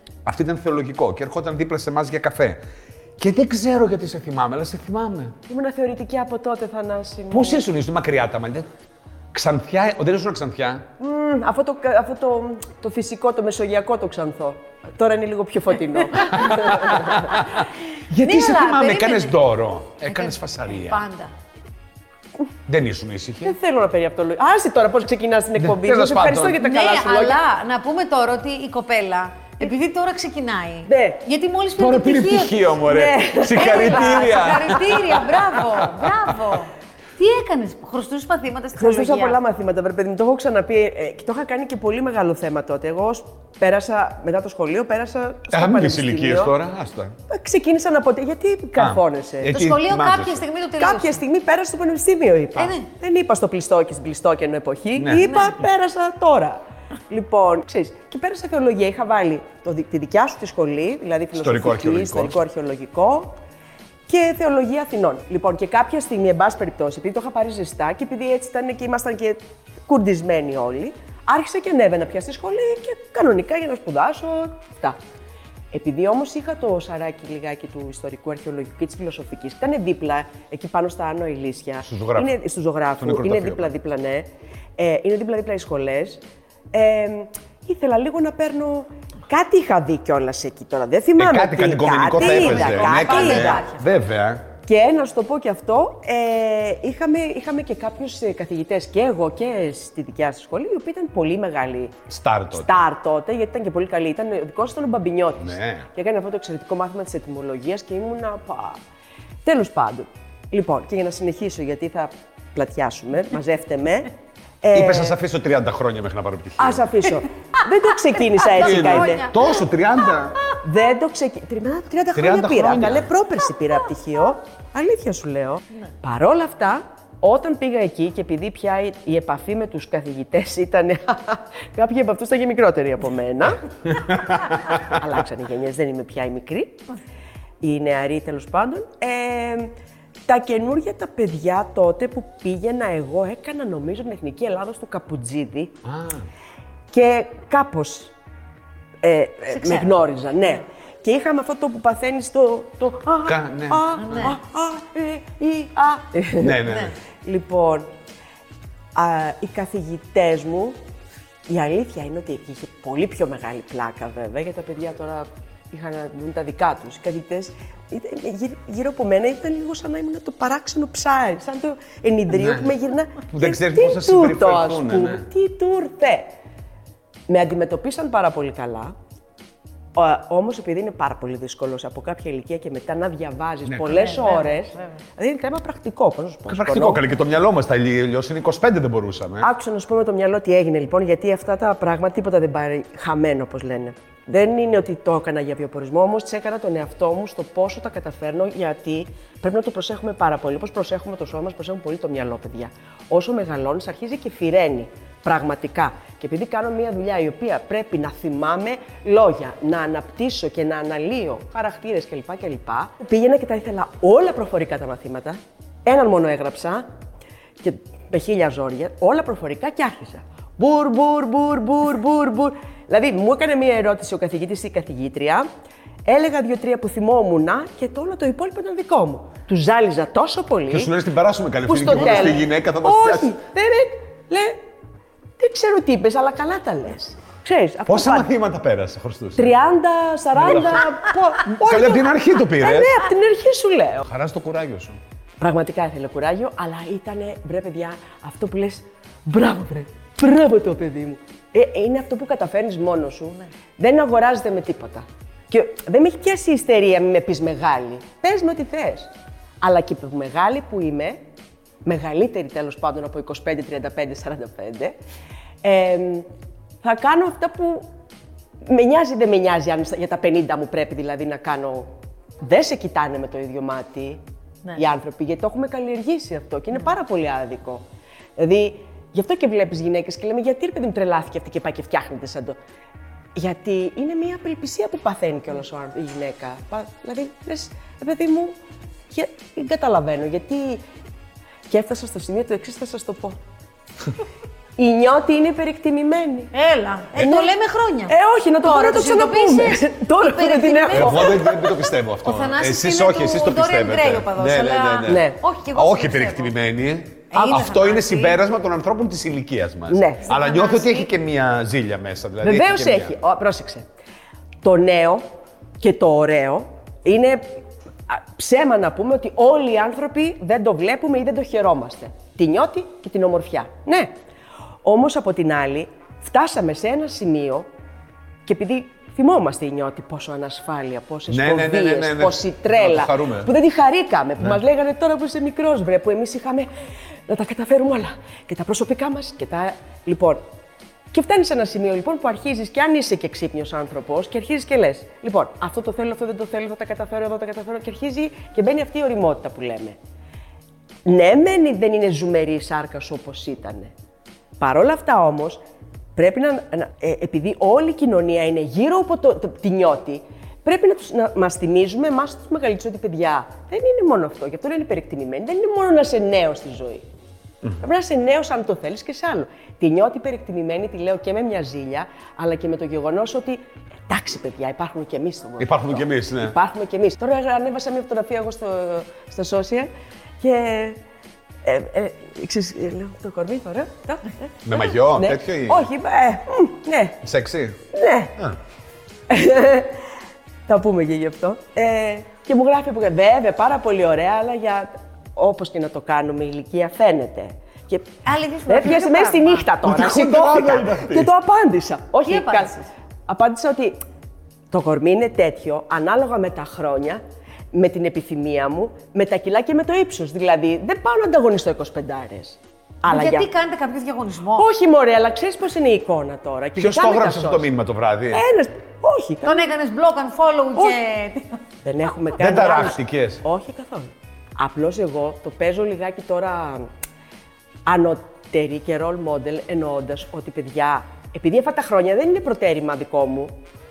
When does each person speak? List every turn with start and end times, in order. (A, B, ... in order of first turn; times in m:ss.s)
0:00.2-0:02.6 A
0:03.2-0:05.4 A
0:05.5-0:07.6 B
0:07.3-0:08.7 A
0:09.3-0:10.8 A
0:11.0-0:17.4 B
0:16.3-0:21.0 A
0:18.2-0:19.3 C
0:20.0-0:21.3 C
0:22.7-0:23.6 A
0:23.4-0:27.4 B
0:25.6-0:26.6 A
0:26.6-0:32.7 C
0:30.9-0:31.2 B
0:31.8-0:36.2 A
0:32.8-0:34.7 B
0:33.6-0:39.4 C
0:38.8-0:46.5 B
0:45.5-0:47.2 A
0:47.3-0:49.6 B
0:48.8-0:50.4 A
0:49.5-0:51.2 C
0:50.8-1:03.4 B
0:52.6-0:52.9 C
0:55.0-0:55.5 A
1:01.4-1:02.4 A
1:04.1-1:15.0 B
1:15.7-1:33.7 B
1:21.8-1:22.3 A
1:23.0-1:23.7 A
1:31.2-1:34.5 A
1:32.2-1:33.8 C
1:34.6-1:48.8 B
1:42.1-1:42.8 A
1:45.4-1:45.9 A
1:49.4-1:55.2 B
1:54.7-1:56.9 A
1:56.6-1:59.3 B
1:58.4-1:59.6 C
1:58.6-2:00.4 A
2:00.6-2:16.9 B
2:02.2-2:03.1 A
2:17.6-2:19.7 B
2:20.3-2:25.8 B
2:25.8-2:26.3 A
2:26.9-2:28.1 B
2:29.0-2:36.6 B
2:29.5-2:29.9 C
2:33.3-2:34.3 A
2:34.0-2:34.4 C
2:36.4-2:36.9 A
2:36.6-2:37.0 C
2:37.2-2:37.9 B
2:39.0-2:40.8 B
2:41.5-2:56.3 B
2:52.3-2:52.7 A
2:53.3-2:55.3 A
2:57.3-2:58.9 B
3:00.0-3:07.0 B
3:03.8-3:04.9 C
3:06.5-3:09.5 A
3:09.4-3:36.9 B
3:37.6-3:45.5 B
3:46.1-3:50.9 B
3:50.7-3:53.4 A
3:51.7-3:54.6 B
3:55.4-3:58.3 B
3:57.9-3:59.6 A
3:59.4-4:04.1 B
4:00.4-4:00.9 A
4:01.4-4:03.0 A
4:04.0-4:05.0 A
4:05.4-4:21.2 B
4:21.8-4:25.0 B
4:25.6-4:26.3 B
4:26.8-4:27.9 B
4:28.6-4:31.9 B
4:32.4-4:34.2 B
4:34.8-4:37.8 B
4:38.4-4:42.6 B
4:43.4-4:48.6 B
4:49.1-4:50.8 B
4:51.7-4:53.4 B
4:54.8-4:56.5 B
4:56.5-5:01.6 C
4:57.2-4:57.5 B
4:58.1-5:01.7 B
5:00.9-5:13.2 A
5:02.2-5:06.5 C
5:05.1-5:05.4 B
5:07.3-5:08.4 C
5:09.9-5:10.4 B
5:10.3-5:11.1 C
5:12.4-5:13.9 B
5:14.6-5:15.2 B
5:15.8-5:17.5 B
5:18.1-5:24.2 B
5:24.8-5:27.7 B
5:28.5-5:36.7 B
5:31.3-5:33.5 A
5:37.3-5:40.4 B
5:41.1-5:50.0 B
5:51.0-5:53.9 B
5:54.6-5:55.6 B
5:56.2-6:07.0 B
6:07.8-6:19.9 B
6:15.6-6:16.6 A
6:20.4-6:21.0 B
6:21.6-6:27.2 B
6:24.6-6:25.9 A
6:27.2-6:27.8 A
6:27.9-6:28.4 B
6:29.3-6:30.0 B
6:30.7-6:38.1 B
6:38.2-6:39.7 C
6:38.7-6:44.0 B
6:39.8-6:41.3 A
6:42.2-6:42.9 C
6:44.7-6:47.2 B
6:47.7-6:53.5 B
6:53.1-6:54.7 C
6:54.6-6:57.7 B
6:56.8-6:58.4 A
6:58.3-6:59.6 B
6:59.4-7:01.6 C
7:01.8-7:06.9 B
7:02.4-7:03.4 A
7:07.9-7:13.6 B